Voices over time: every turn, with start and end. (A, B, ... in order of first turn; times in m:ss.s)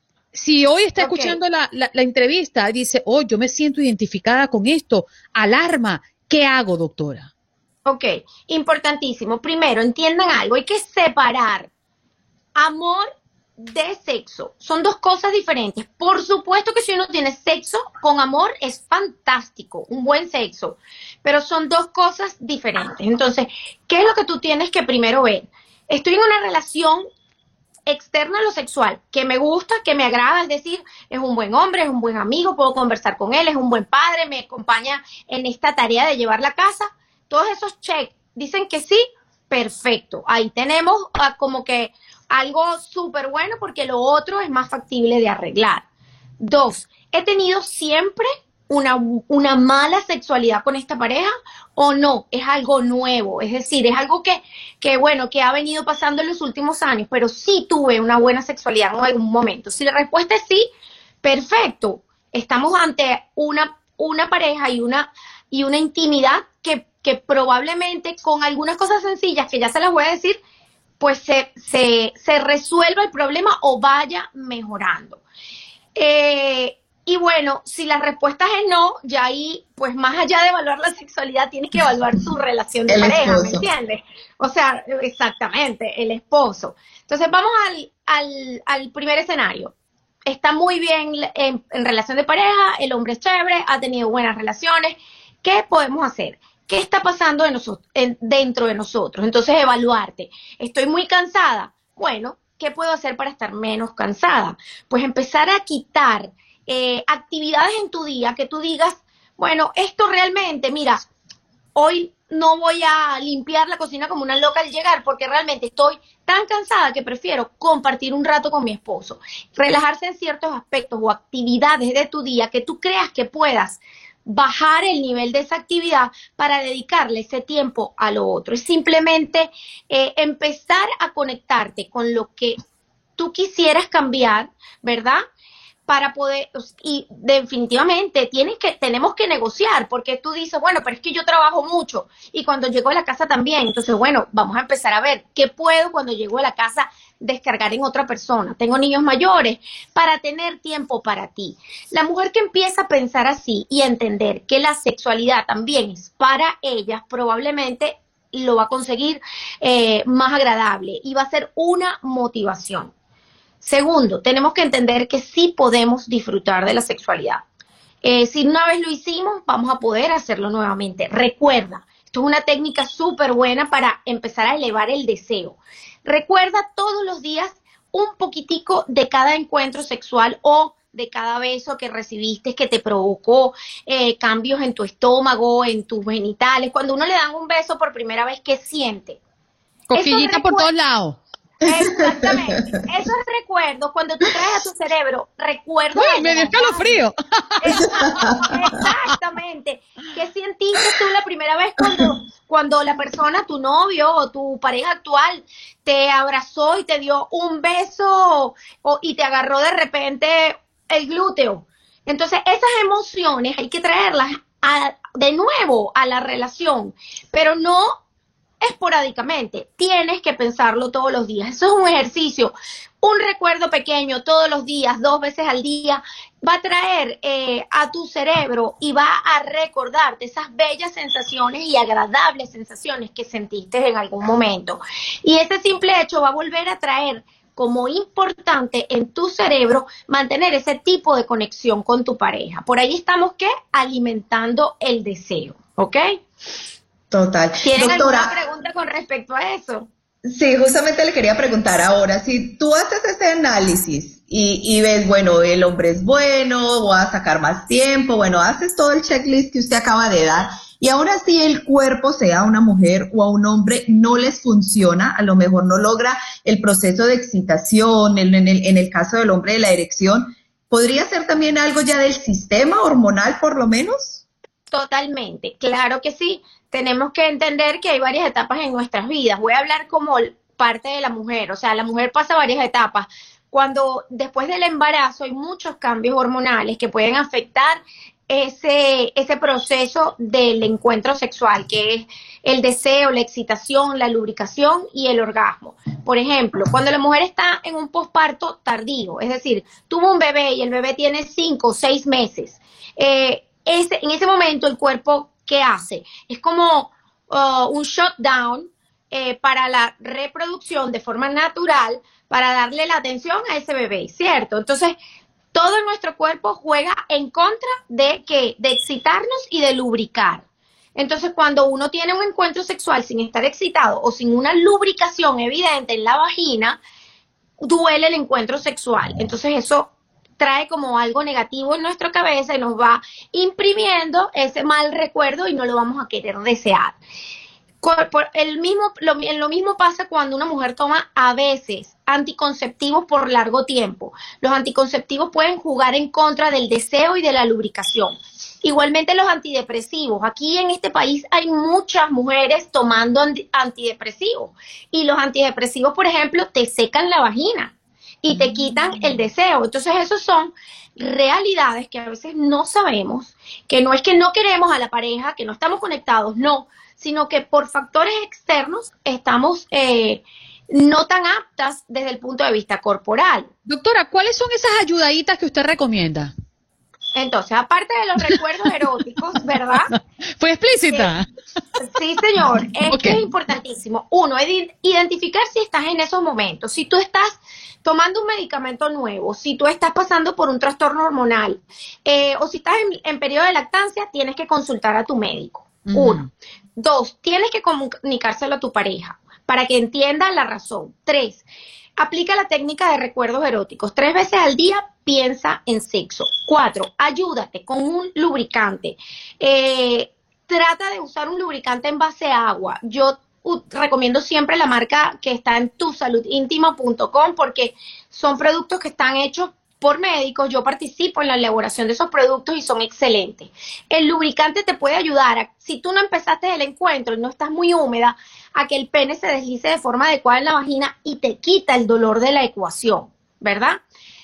0:00.3-0:07.3 A
0:01.0-0:01.4 B
0:07.9-0:11.7 B
0:12.6-0:13.1 B
0:13.6-0:27.0 B
0:27.9-0:45.8 B
0:46.4-1:00.7 B
1:01.2-1:10.4 B
1:11.0-1:15.2 B
1:16.0-1:29.7 B
1:22.9-1:23.7 C
1:30.3-1:51.1 B
1:51.8-2:12.6 B
2:13.2-2:15.2 B
2:15.9-2:42.9 B
2:43.6-2:47.4 B
2:48.0-3:09.2 B
3:09.9-3:11.2 A
3:09.9-3:10.7 B
3:11.6-3:16.9 B
3:11.8-3:12.6 C
3:16.0-3:18.9 A
3:17.6-3:38.0 B
3:17.9-3:18.5 C
3:38.6-4:06.1 B
4:07.1-4:08.3 C
4:07.6-4:09.9 B
4:10.2-4:34.2 C
4:34.7-5:15.0 B
5:15.5-5:20.4 B
5:21.0-5:26.8 B
5:27.6-5:37.0 B
5:37.8-6:13.5 B
5:58.3-5:59.0 A
6:13.7-6:16.3 A
6:17.2-6:19.9 B
6:20.4-6:21.3 A
6:21.8-6:41.4 B
6:22.9-6:23.2 A
6:35.9-6:36.3 A
6:42.0-7:13.8 B